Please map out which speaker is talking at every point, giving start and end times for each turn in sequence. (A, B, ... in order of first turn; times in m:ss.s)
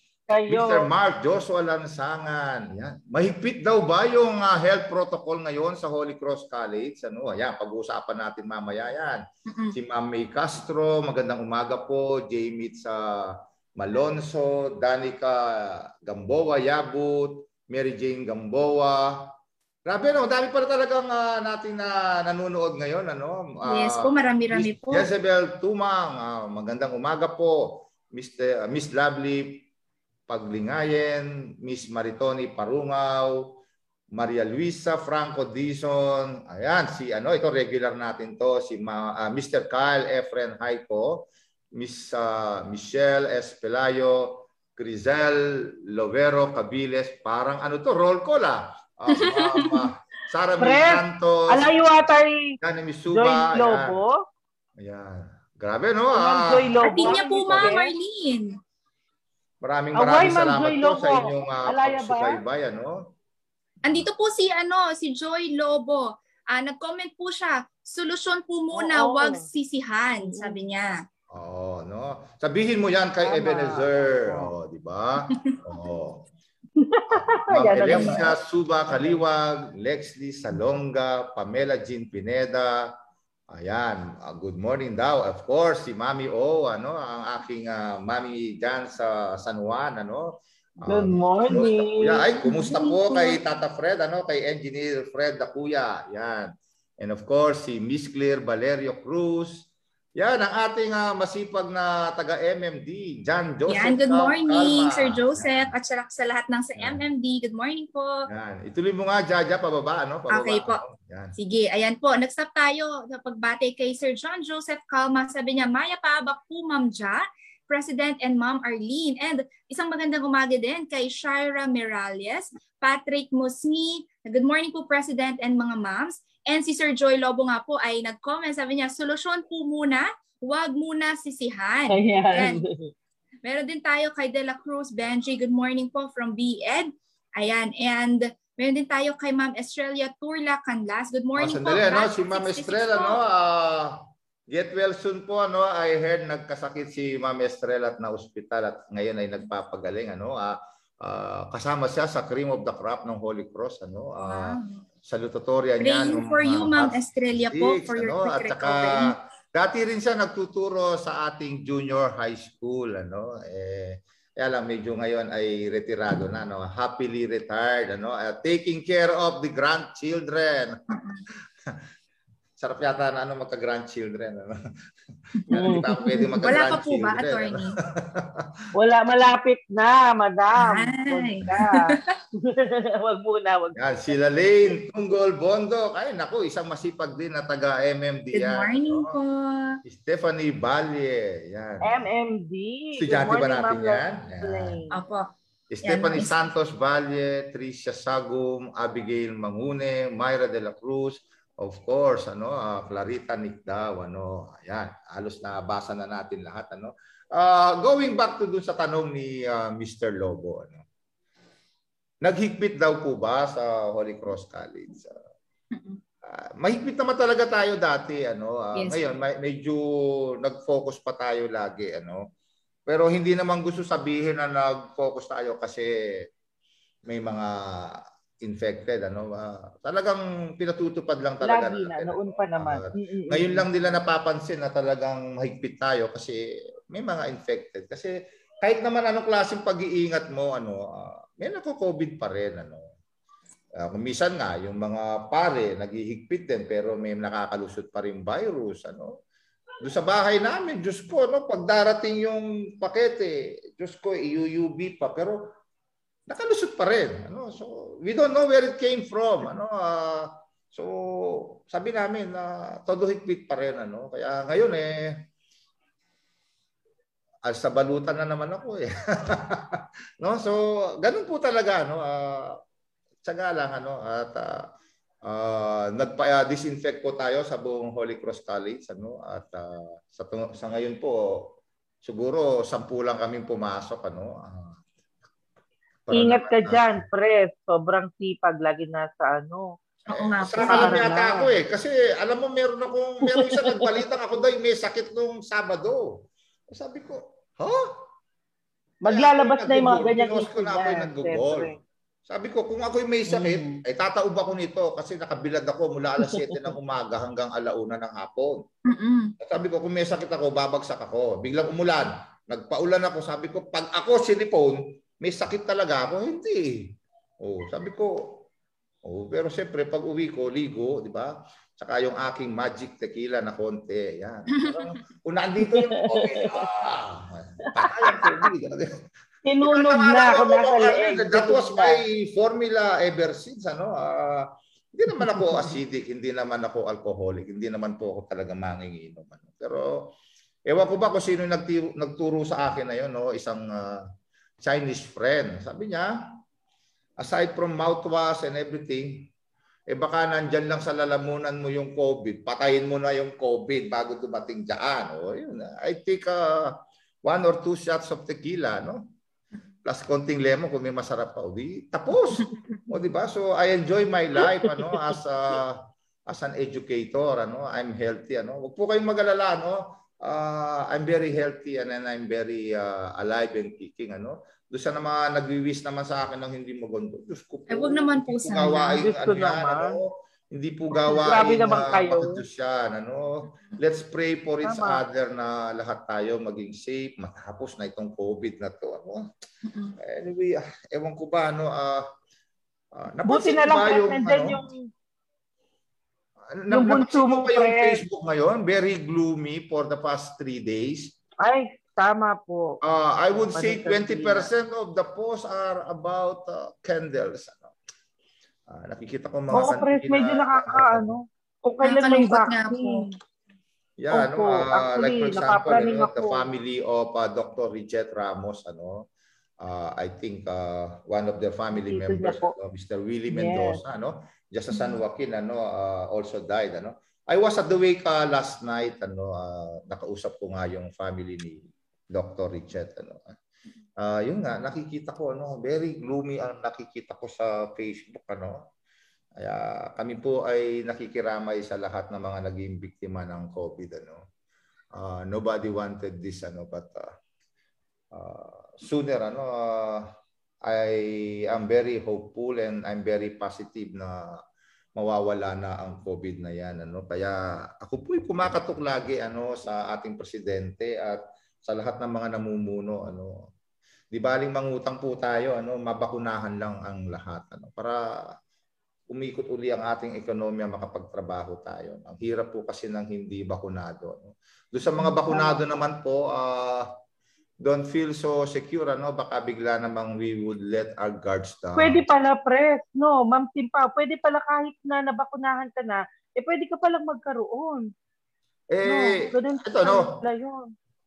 0:00.3-0:00.9 A
0:00.5-0:09.2 B
0:09.5-0:09.8 C
0:09.7-0:19.1 B
0:19.9-0:29.7 B
0:23.7-0:25.1 C
0:30.3-0:33.6 B
0:34.1-0:51.7 B
0:49.1-0:49.5 C
0:50.6-0:52.5 A
0:52.6-0:54.0 B
0:53.1-0:54.2 A
0:54.8-0:57.8 B
0:56.1-0:57.9 A
0:56.8-0:58.6 C
0:59.6-1:03.0 B
1:00.0-1:02.4 A
1:03.8-1:10.9 C
1:08.7-1:09.4 A
1:11.3-1:16.2 B
1:13.2-1:14.5 A
1:16.8-1:18.3 A
1:17.1-1:22.9 B
1:17.9-1:18.2 C
1:23.5-1:39.6 B
1:30.9-1:32.3 A
1:32.4-1:33.4 C
1:40.2-1:45.7 B
1:43.7-1:48.1 C
1:48.3-1:51.4 B
1:50.3-1:50.8 C
1:51.4-2:12.6 C
2:11.9-2:12.9 A
2:13.4-2:23.2 C
2:21.4-2:24.0 B
2:24.5-2:50.8 B
2:34.2-2:34.8 C
2:35.8-2:39.1 C
2:50.9-2:51.2 C
2:52.6-2:54.5 B
2:55.5-2:58.5 B
2:55.5-2:56.4 A
2:56.4-2:57.8 C
2:58.7-3:04.1 A
3:00.6-3:01.8 C
3:03.8-3:09.1 B
3:08.3-3:09.8 C
3:09.8-3:12.0 B
3:11.8-3:14.9 A
3:13.0-3:14.8 B
3:14.9-3:15.3 C
3:15.7-3:30.8 B
3:15.8-3:16.4 C
3:32.2-3:35.1 B
3:35.7-3:36.0 C
3:36.3-3:39.8 B
3:38.7-3:39.0 C
3:40.4-3:42.2 B
3:42.9-3:45.9 B
3:47.1-3:56.4 B
3:51.4-3:53.6 A
3:56.9-4:02.9 B
4:03.8-4:09.2 B
4:09.8-4:15.5 B
4:16.3-4:25.2 B
4:27.4-4:32.6 B
4:33.2-4:34.7 B
4:35.2-4:41.5 B
4:42.0-4:44.8 B
4:46.1-4:46.9 B
4:46.1-4:49.6 A
4:50.1-4:51.1 C
4:50.1-4:57.9 B
4:50.6-4:51.5 A
4:53.3-4:54.0 A
4:59.0-5:01.7 A
4:59.1-5:01.7 B
5:02.3-5:08.6 B
5:03.3-5:03.8 A
5:06.2-5:06.6 A
5:08.9-5:09.3 C
5:09.4-5:18.4 B
5:19.0-5:28.9 B
5:24.5-5:24.8 C
5:25.6-5:26.5 A
5:27.8-5:28.5 A
5:29.4-5:32.0 A
5:29.6-5:40.1 B
5:40.7-5:44.0 B
5:44.6-5:46.1 B
5:47.2-5:49.3 B
5:49.9-5:59.0 B
5:59.8-6:29.3 B
6:17.7-6:19.0 C
6:18.5-6:20.0 A
6:21.2-6:22.4 A
6:24.6-6:25.0 A
6:29.6-6:30.0 C
6:30.0-6:32.0 B
6:32.9-6:34.6 B
6:33.3-6:34.8 A
6:36.5-6:41.1 B
6:36.7-6:38.0 A
6:41.4-6:42.8 A
6:42.8-6:47.7 B
6:43.4-6:44.5 A
6:48.7-6:51.2 B
6:49.5-6:53.1 A
6:51.8-6:53.1 C
6:54.0-6:59.0 B
6:54.1-6:56.4 A
6:59.6-7:13.4 B
7:01.7-7:02.5 A
7:03.3-7:03.8 A
7:14.0-7:18.6 B
7:19.4-7:24.2 B
7:24.9-7:27.1 B
7:28.1-7:30.1 B
7:30.6-7:34.4 B
7:34.9-7:43.5 B
7:44.1-7:48.0 B
7:49.1-7:56.9 B
7:55.0-7:55.7 A
7:57.6-8:02.0 B
8:01.8-8:07.9 A
8:08.7-8:10.1 B
8:08.8-8:10.7 A